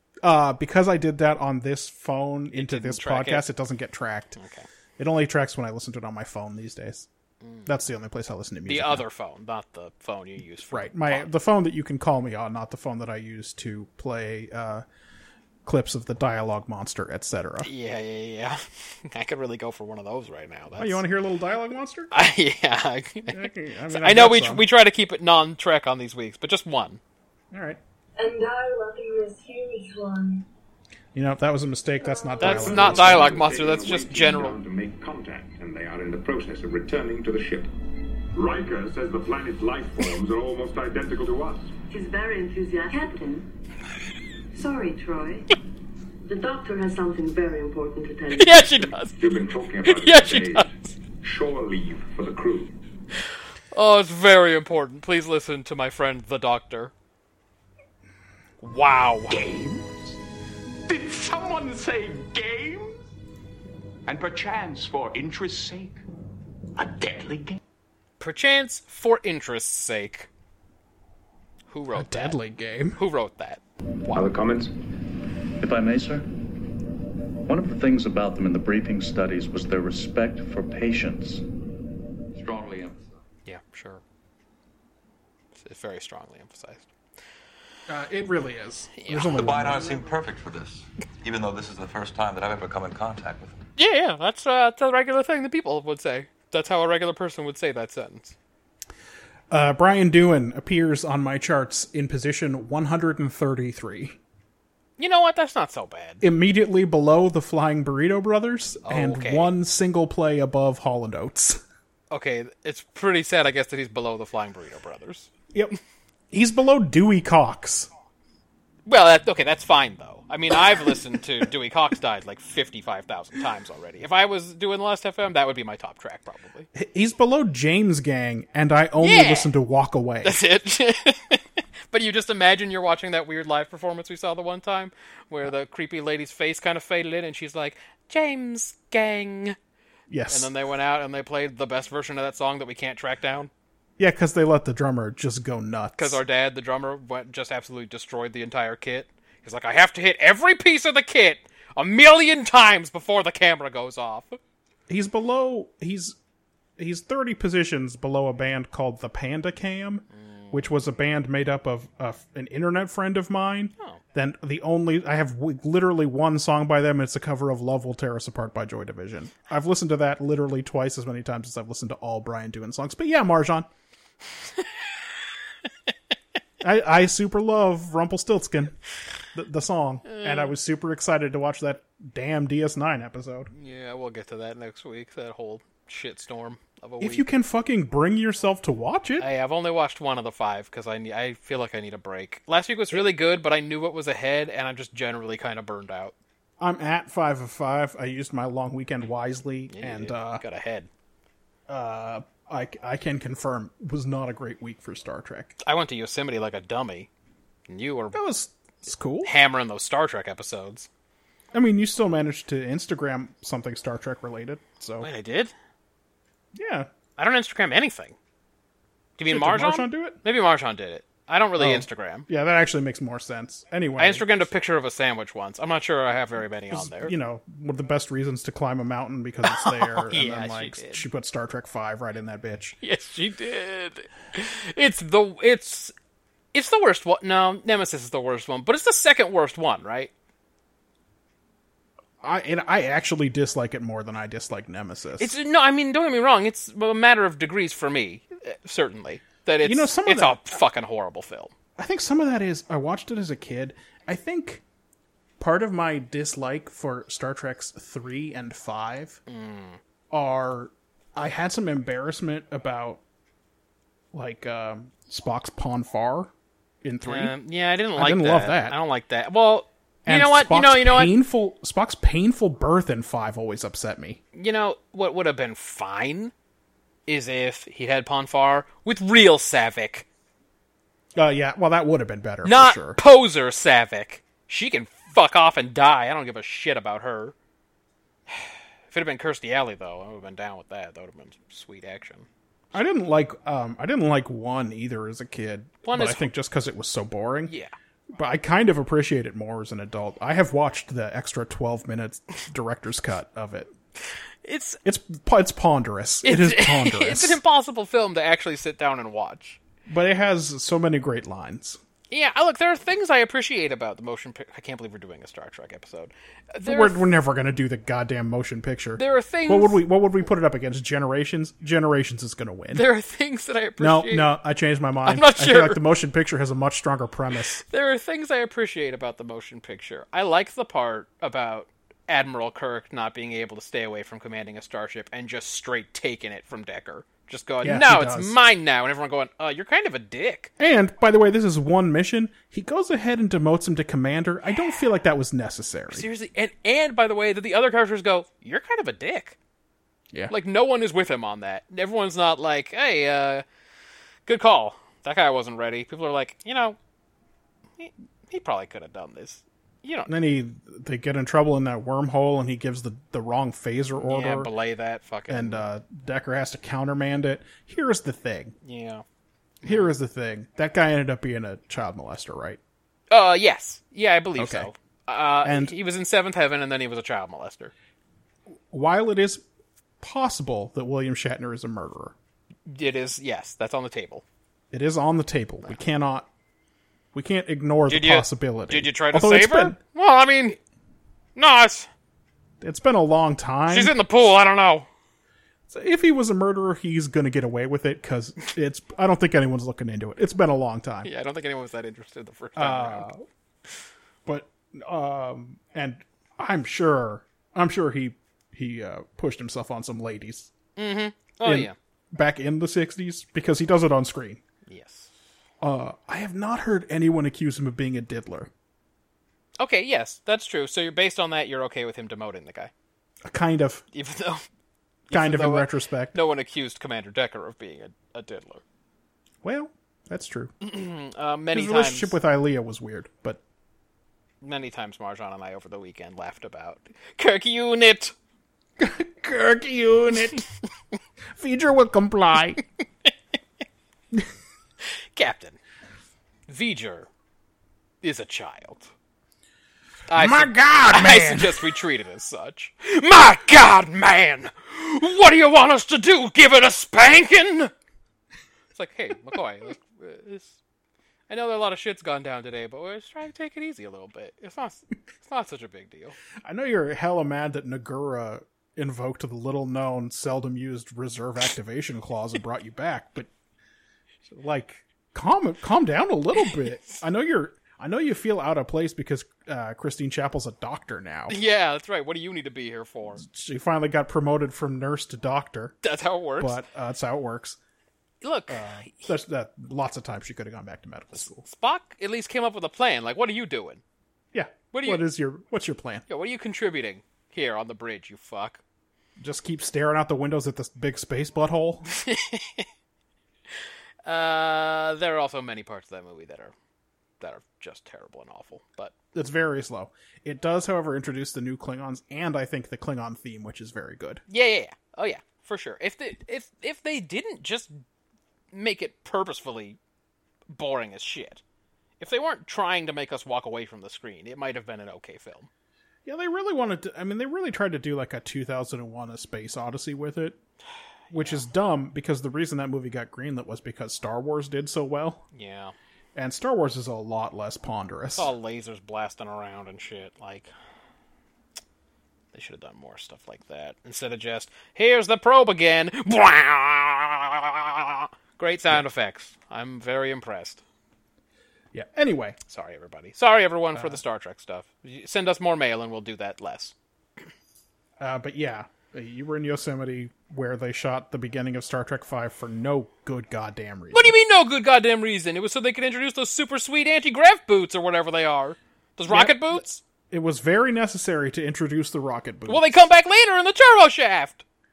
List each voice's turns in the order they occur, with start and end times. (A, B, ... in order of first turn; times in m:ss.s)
0:00.2-0:04.4 A
0:02.5-0:03.5 B
0:04.4-0:04.7 B
0:05.0-0:07.1 A
0:07.4-0:07.7 B
0:07.7-0:09.1 A
0:08.7-0:11.3 B
0:10.7-0:14.8 A
0:15.6-0:17.7 A
0:17.6-0:21.0 B
0:20.8-0:22.1 A
0:22.1-0:27.0 B
0:23.3-0:24.7 A
0:27.5-0:27.8 A
0:28.2-0:30.5 C
0:31.1-0:33.4 A
0:32.0-0:32.4 C
0:32.4-0:34.6 B
0:32.4-0:37.7 D
0:38.3-0:41.8 D
0:41.9-0:43.5 E
0:44.5-0:45.5 E
0:46.2-0:48.8 E
0:48.4-0:49.2 B
0:49.1-0:52.8 D
0:49.8-0:50.9 B
0:53.7-0:56.9 B
0:58.6-0:59.4 B
0:59.3-1:00.2 F
1:00.9-1:03.1 F
1:04.1-1:06.0 F
1:06.8-1:07.6 F
1:08.2-1:10.3 B
1:11.7-1:12.4 B
1:11.9-1:13.0 A
1:13.0-1:14.4 B
1:14.1-1:14.7 D
1:15.6-1:16.3 G
1:17.5-1:21.4 G
1:22.4-1:23.1 H
1:23.5-1:24.0 B
1:25.6-1:26.9 B
1:27.9-1:30.0 A
1:29.0-1:29.5 B
1:29.2-1:33.6 H
1:33.8-1:38.4 B
1:39.5-1:44.2 A
1:45.0-1:46.2 B
1:46.2-1:51.6 A
1:48.8-1:49.5 B
1:52.1-1:55.3 B
1:56.3-1:57.9 A
1:58.9-2:06.7 B
2:06.7-2:10.4 A
2:09.0-2:09.5 B
2:10.2-2:19.6 B
2:20.1-2:20.5 A
2:20.3-2:23.5 B
2:24.0-2:26.2 A
2:26.0-2:34.4 B
2:34.9-2:36.2 A
2:36.8-2:53.7 A
2:40.1-2:40.7 B
2:56.6-2:58.8 A
2:59.3-3:03.5 A
3:00.1-3:00.6 B
3:03.5-3:07.3 B
3:07.0-3:09.3 A
3:09.2-3:16.2 B
3:16.6-3:20.4 A
3:19.7-3:20.9 B
3:21.7-3:25.5 A
3:25.6-3:27.1 B
3:27.7-3:28.2 B
3:28.1-3:29.3 A
3:29.2-3:30.9 B
3:31.5-3:35.1 A
3:35.0-3:35.5 B
3:36.6-3:36.9 A
3:37.2-3:38.2 B
3:39.2-3:42.3 B
3:39.3-3:40.2 A
3:41.6-3:44.3 A
3:44.0-3:47.1 B
3:46.7-3:52.8 A
3:49.5-3:51.1 B
3:52.8-3:55.9 B
3:56.5-4:00.1 B
4:02.2-4:05.4 A
4:05.2-4:11.5 B
4:09.6-4:10.4 A
4:11.8-4:14.6 A
4:15.4-4:19.2 A
4:19.3-4:19.8 B
4:20.1-4:23.0 A
4:24.1-4:26.3 A
4:26.8-4:27.4 A
4:27.0-4:31.2 B
4:28.0-4:28.8 A
4:30.1-4:34.2 A
4:34.3-4:36.3 B
4:37.1-4:40.1 B
4:41.2-4:43.0 A
4:42.4-4:47.4 B
4:48.3-4:52.3 B
4:52.7-4:57.5 A
4:55.8-4:56.3 B
4:57.5-4:57.7 B
4:58.1-5:03.7 A
5:04.4-5:04.8 B
5:04.8-5:07.4 A
5:06.2-5:09.6 B
5:09.9-5:11.8 A
5:12.1-5:17.1 B
5:16.6-5:22.9 A
5:19.0-5:19.8 B
5:22.7-5:24.3 B
5:23.8-5:27.6 A
5:25.0-5:25.8 B
5:27.6-5:40.5 B
5:37.6-5:38.4 A
5:40.6-5:46.1 A
5:45.9-5:49.4 B
5:50.3-5:53.4 B
5:54.3-5:56.8 B
5:57.8-6:00.1 B
6:00.1-6:04.5 A
6:04.0-6:05.7 B
6:05.3-6:08.6 A
6:08.6-6:09.0 B
6:09.6-6:09.9 B
6:09.6-6:12.6 A
6:13.1-6:17.7 B
6:14.4-6:14.7 A
6:15.4-6:15.8 A
6:18.7-6:19.4 A
6:20.0-6:22.2 A
6:22.7-6:24.2 B
6:24.7-6:26.3 A
6:27.1-6:29.8 A
6:27.9-6:30.6 B
6:31.4-6:31.9 B
6:32.6-6:34.0 A
6:33.7-6:34.9 B
6:35.7-6:41.1 A
6:41.0-6:43.1 B
6:42.6-6:43.2 A
6:44.3-6:50.5 A
6:50.8-6:51.8 B
6:51.4-6:54.4 A
6:54.7-6:55.1 B
6:55.6-6:58.5 A
6:59.6-7:02.7 B
7:03.2-7:03.8 A
7:03.9-7:04.4 B
7:05.1-7:08.6 B
7:05.1-7:06.2 A
7:09.4-7:10.5 A
7:10.6-7:12.2 B
7:11.5-7:13.4 A
7:14.4-7:18.1 B
7:18.8-7:20.4 A
7:21.3-7:22.6 A
7:25.2-7:25.6 B
7:26.5-7:27.1 B
7:28.0-7:28.9 B
7:30.1-7:37.7 B
7:30.1-7:31.8 A
7:38.7-7:40.6 B
7:41.3-7:46.2 B
7:46.4-7:53.3 A
7:54.3-8:01.4 A
8:01.3-8:03.2 B
8:03.2-8:05.8 A
8:05.8-8:06.6 B
8:06.4-8:07.6 A
8:08.2-8:09.2 B
8:08.5-8:11.4 A
8:11.2-8:13.8 B
8:14.3-8:16.0 A
8:14.7-8:15.1 B
8:16.1-8:18.6 B
8:19.2-8:21.8 A
8:21.9-8:22.7 B
8:24.0-8:26.5 B
8:27.2-8:28.9 B
8:29.1-8:34.2 A
8:34.3-8:37.8 B
8:38.5-8:39.8 B
8:40.5-8:41.4 B
8:42.0-8:45.5 B
8:46.0-8:50.4 A
8:51.1-8:51.5 B
8:51.1-8:55.2 A
8:55.3-8:55.7 B
8:56.2-8:58.3 A
8:58.2-9:00.5 B
9:02.3-9:10.6 B
9:11.7-9:12.4 A
9:12.5-9:16.7 B
9:13.8-9:14.0 A
9:18.0-9:24.1 A
9:23.9-9:29.8 B
9:29.1-9:32.8 A
9:32.5-9:34.4 B